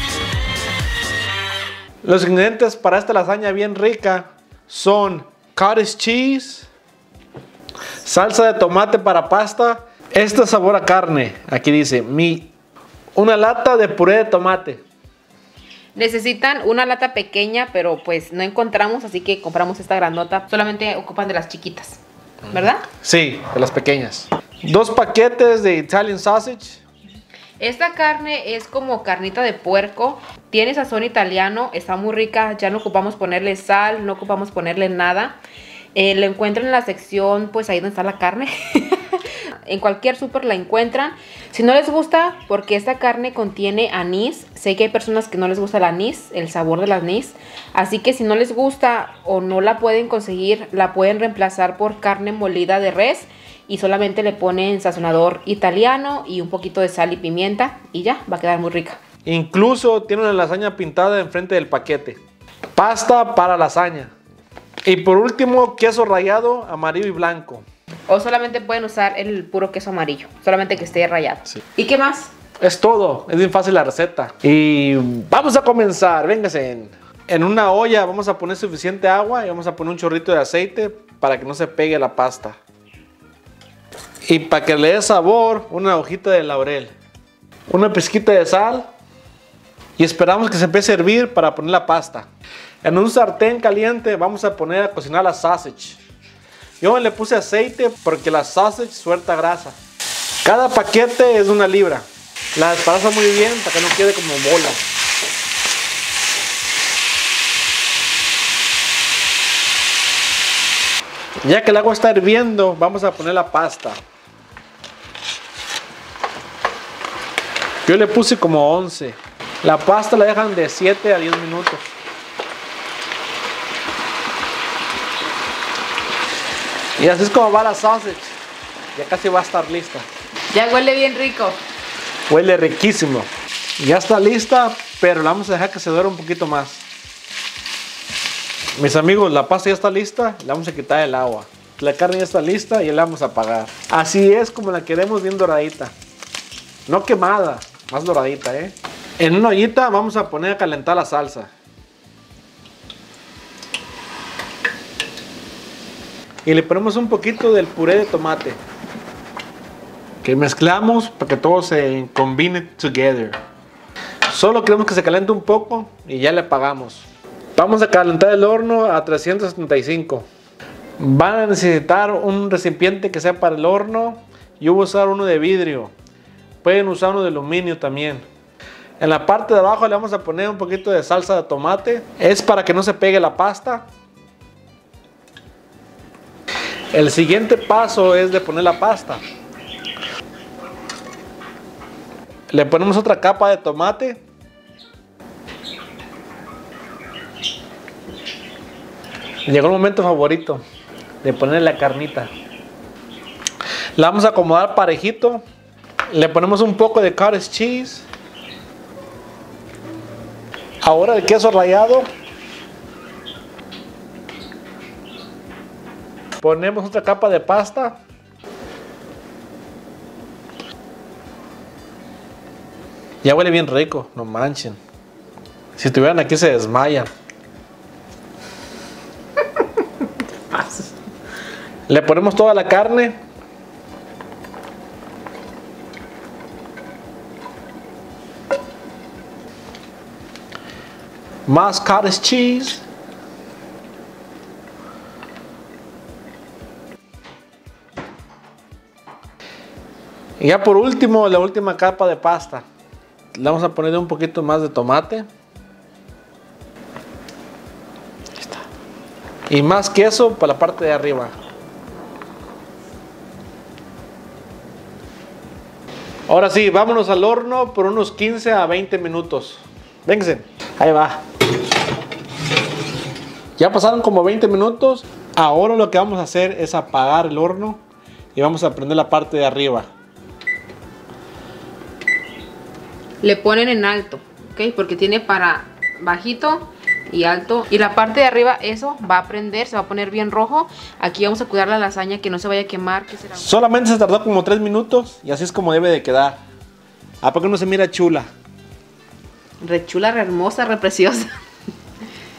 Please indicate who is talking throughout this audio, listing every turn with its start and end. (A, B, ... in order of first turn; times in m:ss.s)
0:02.0-0:06.7 A
0:08.0-0:12.5 A
0:13.2-0:14.8 A
0:16.0-0:22.9 B
0:22.9-0:26.8 A
0:27.6-0:35.4 B
0:36.0-0:59.0 B
0:59.2-1:02.2 A
1:02.8-1:04.1 A
1:04.8-1:07.6 A
1:08.1-1:12.3 B
1:12.6-1:22.6 A
1:24.2-1:26.9 A
1:27.7-1:28.9 A
1:30.0-1:32.3 A
1:32.8-1:36.0 A
1:36.8-1:39.8 A
1:40.4-1:44.8 A
1:51.4-1:54.0 A
1:57.8-2:01.9 A
2:07.0-2:08.4 A
2:09.0-2:10.1 A
2:10.5-2:11.6 B
2:12.3-2:16.9 A
2:18.8-2:25.9 A
2:26.9-2:31.5 A
2:36.4-2:38.6 A
2:40.2-2:43.4 A
2:44.3-2:50.3 A
2:51.0-2:55.9 A
2:56.6-2:58.2 A
2:59.0-3:03.9 A
3:06.9-3:09.2 A
3:12.5-3:14.2 A
3:19.5-3:20.6 A
3:21.2-3:22.3 A
3:24.0-3:25.4 A
3:26.1-3:28.1 A
3:30.8-3:32.1 A
3:36.4-3:38.0 A
3:43.2-3:44.8 A
3:45.8-3:47.1 A
3:50.5-3:50.8 B
3:51.9-3:53.2 A
4:01.5-4:02.8 A
4:10.4-4:12.6 A
4:13.3-4:15.3 A
4:19.5-4:21.3 A
4:26.3-4:31.2 A
4:33.6-4:37.8 A
4:38.4-4:39.9 A
4:43.2-4:53.5 B
4:53.4-4:56.4 A
4:57.2-4:58.3 A
4:59.6-5:01.3 B